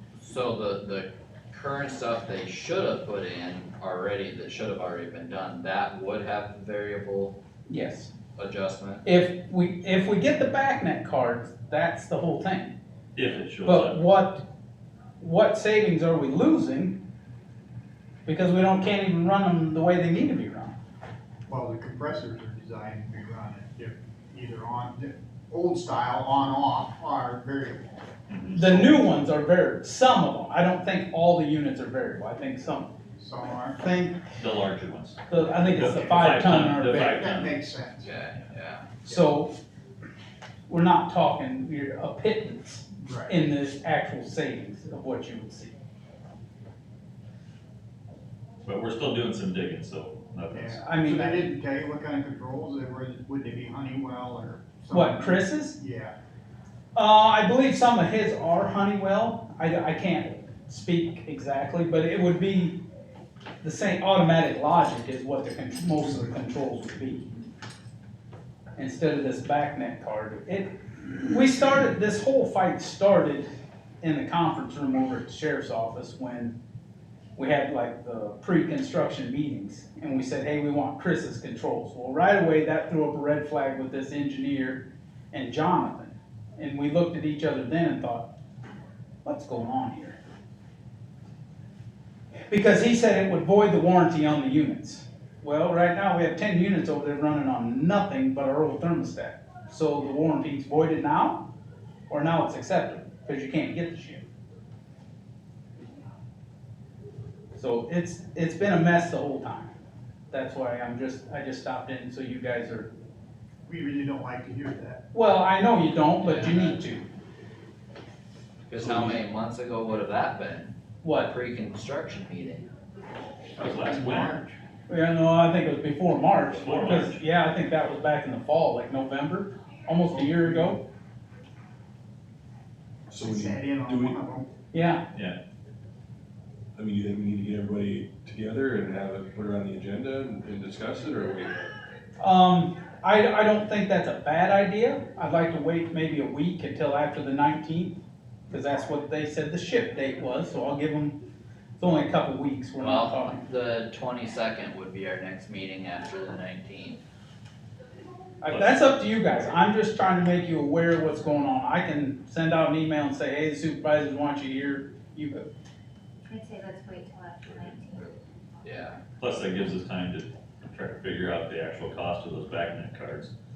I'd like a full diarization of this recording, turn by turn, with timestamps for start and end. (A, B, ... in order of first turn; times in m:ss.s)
0:00.2-0:07.4 A
0:07.7-0:08.1 B
0:08.4-0:09.0 A
0:09.0-0:12.7 B
0:13.2-0:14.0 C
0:13.6-0:14.5 B
0:15.2-0:17.0 B
0:18.3-0:20.8 B
0:21.5-0:28.0 D
0:28.3-0:28.8 C
0:28.5-0:32.9 B
0:33.2-0:34.2 D
0:34.4-0:37.5 C
0:35.3-0:37.2 B
0:36.2-0:38.1 D
0:38.0-0:38.9 A
0:39.1-0:39.5 B
0:40.7-0:45.8 B
0:43.0-0:43.4 D
0:48.6-0:50.8 C
0:50.5-0:56.2 D
0:50.8-0:51.5 B
0:54.9-0:55.8 B
0:57.0-1:02.8 B
1:03.6-1:07.3 B
1:08.8-1:13.5 B
1:14.0-1:16.5 B
1:17.4-1:28.3 B
1:29.2-1:30.2 B
1:32.5-1:41.5 B
1:42.1-1:44.3 B
1:47.6-1:49.7 B
1:50.3-1:52.9 B
1:53.7-1:55.0 D
1:55.1-1:57.0 B
1:56.2-1:56.8 A
1:58.7-2:02.7 A
2:01.0-2:01.3 B
2:03.6-2:04.6 D
2:03.6-2:04.4 C
2:04.9-2:10.8 B
2:06.5-2:07.2 C
2:13.1-2:14.2 E
2:13.1-2:14.5 D
2:14.7-2:15.0 B
2:15.1-2:15.4 C
2:16.8-2:21.7 E
2:22.2-2:31.2 B
2:31.8-2:33.4 B
2:32.8-2:37.0 A
2:38.4-2:45.4 B
2:38.5-2:38.8 C
2:46.2-2:48.2 F
2:48.6-2:49.0 A
2:49.2-2:53.3 C